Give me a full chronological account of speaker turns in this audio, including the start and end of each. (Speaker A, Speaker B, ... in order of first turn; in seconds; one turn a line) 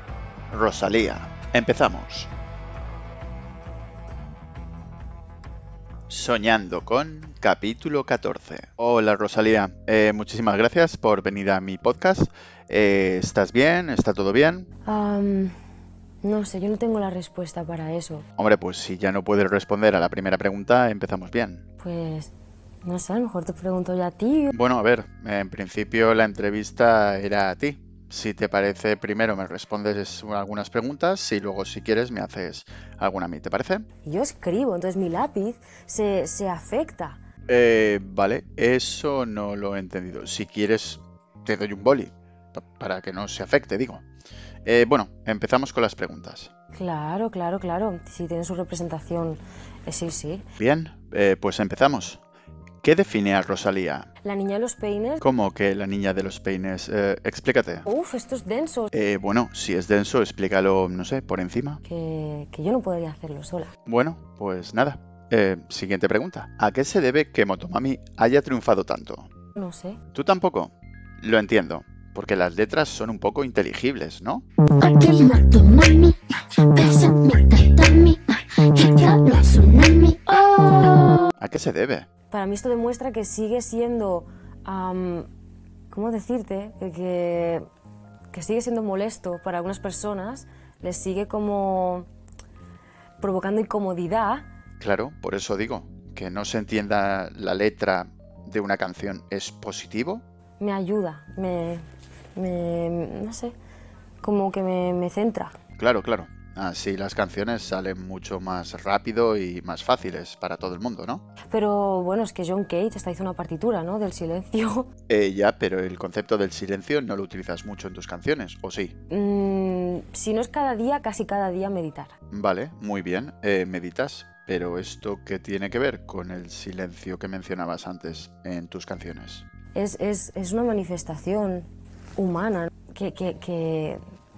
Speaker A: 0.5-2.3
Speaker A: 6.1-14.7
Speaker B: 14.8-15.5
Speaker B: 16.2-18.2
Speaker A: 18.4-21.6
Speaker B: 21.8-22.3
Speaker B: 22.9-24.5
Speaker A: 24.5-33.9
Speaker B: 34.0-37.2
Speaker A: 37.5-44.0
Speaker A: 44.6-46.5
Speaker B: 46.7-50.5
Speaker A: 50.6-52.2
Speaker A: 52.8-54.1
Speaker B: 54.2-55.2
Speaker A: 55.2-57.9
Speaker B: 57.9-58.9
Speaker A: 58.9-61.8
Speaker B: 61.8-63.7
Speaker A: 63.9-69.3
Speaker B: 69.6-70.0
Speaker A: 70.1-74.5
Speaker C: 74.8-81.2
Speaker A: 81.4-82.1
Speaker B: 82.3-85.3
Speaker B: 85.9-87.7
Speaker B: 88.3-92.1
Speaker B: 93.2-94.5
Speaker A: 94.8-100.2
Speaker B: 100.6-101.8
Speaker B: 102.3-103.5
Speaker B: 104.2-105.6
Speaker A: 105.8-111.2
Speaker B: 111.5-114.9
Speaker A: 115.1-119.0
Speaker B: 119.1-122.1
Speaker A: 122.3-129.4
Speaker B: 129.7-134.0